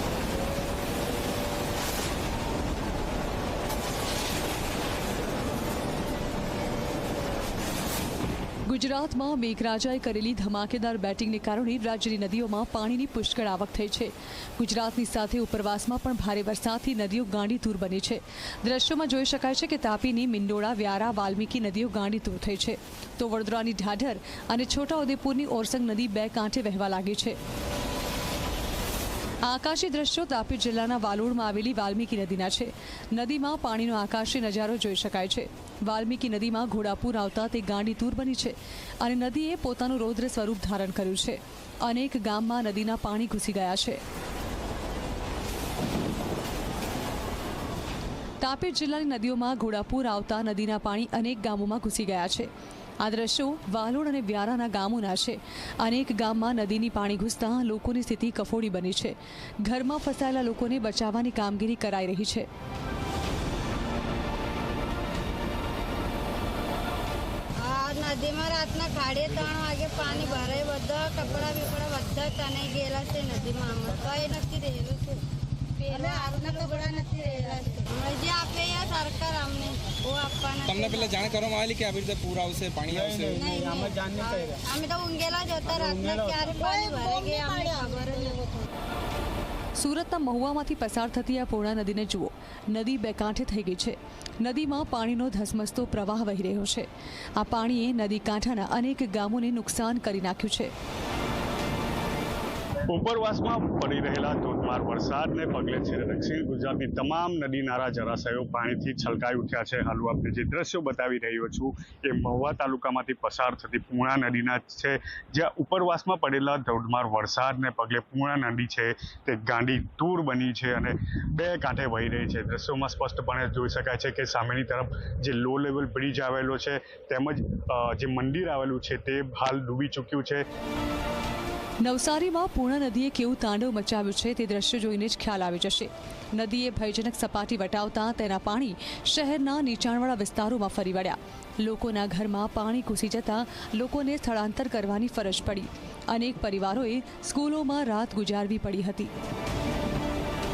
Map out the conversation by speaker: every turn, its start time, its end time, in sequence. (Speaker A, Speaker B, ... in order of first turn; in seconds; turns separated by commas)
Speaker A: 8.7-27.4, Speaker A: 29.4-44.0, Speaker A: 48.4-52.5, Speaker A: 53.0-62.5, Speaker B: 67.6-75.2, Speaker B: 75.8-81.4, Speaker C: 80.7-83.4, Speaker B: 83.3-88.6, Speaker A: 89.8-96.9, Speaker A: 97.4-100.7, Speaker D: 102.9-130.4, Speaker A: 131.8-149.1